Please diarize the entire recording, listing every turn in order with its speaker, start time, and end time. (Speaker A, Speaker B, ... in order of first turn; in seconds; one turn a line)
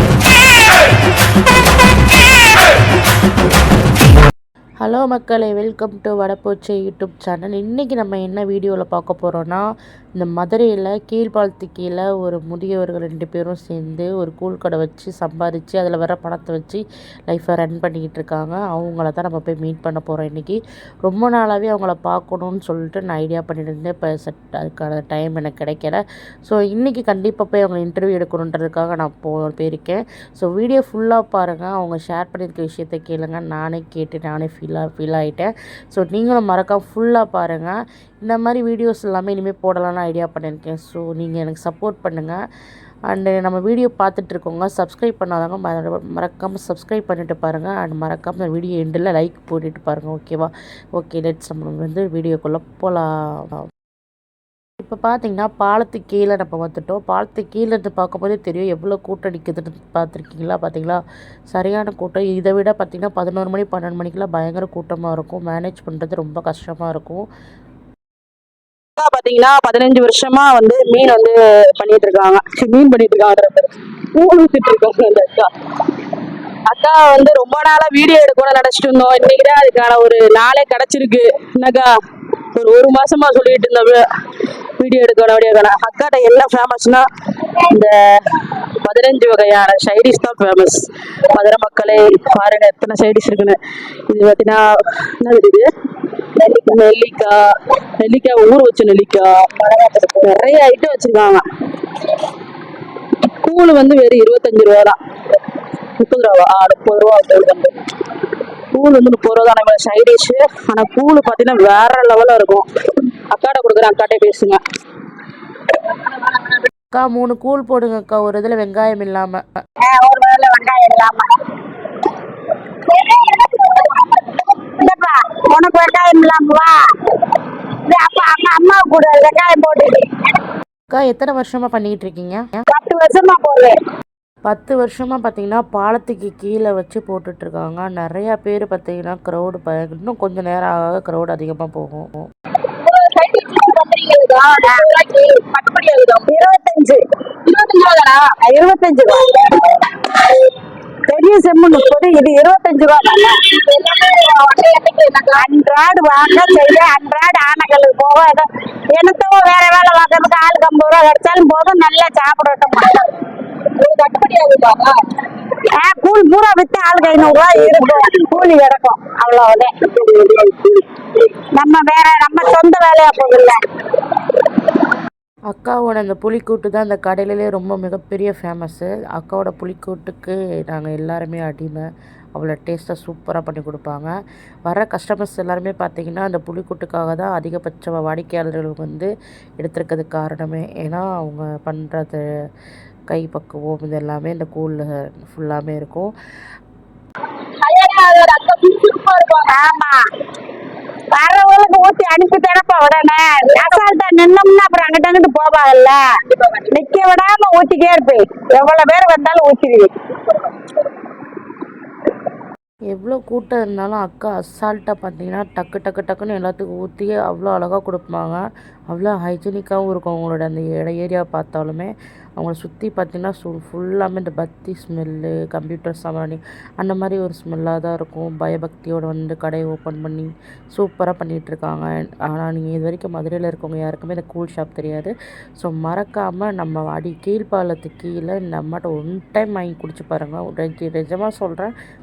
Speaker A: 4.8-42.4
Speaker A: 43.1-53.6
Speaker A: 54.8-67.3
Speaker B: 69.0-75.5
Speaker B: 76.7-81.9
Speaker B: 82.5-84.1
Speaker B: 84.8-95.7
Speaker B: 96.4-99.5
Speaker C: 99.6-100.2
Speaker B: 100.1-101.4
Speaker B: 103.4-105.0
Speaker B: 106.0-107.8
Speaker B: 108.7-114.6
Speaker A: 116.9-119.5
Speaker C: 119.8-121.3
Speaker C: 124.7-126.8
Speaker C: 127.8-130.1
Speaker A: 130.9-132.6
Speaker C: 132.7-133.8
Speaker A: 134.4-142.3
Speaker B: 142.8-146.2
Speaker C: 144.6-144.9
Speaker C: 146.3-147.0
Speaker B: 147.5-148.2
Speaker C: 148.3-150.2
Speaker C: 151.1-153.6
Speaker B: 153.8-155.3
Speaker C: 155.3-163.1
Speaker B: 163.7-165.0
Speaker C: 165.6-169.7
Speaker B: 170.2-170.6
Speaker C: 171.5-173.6
Speaker A: 175.5-184.1
Speaker A: 184.7-192.2
Speaker A: 193.1-196.1
Speaker B: 197.6-199.4
Speaker C: 199.4-200.0
Speaker C: 201.1-206.0
Speaker C: 206.7-209.9
Speaker A: 212.9-241.4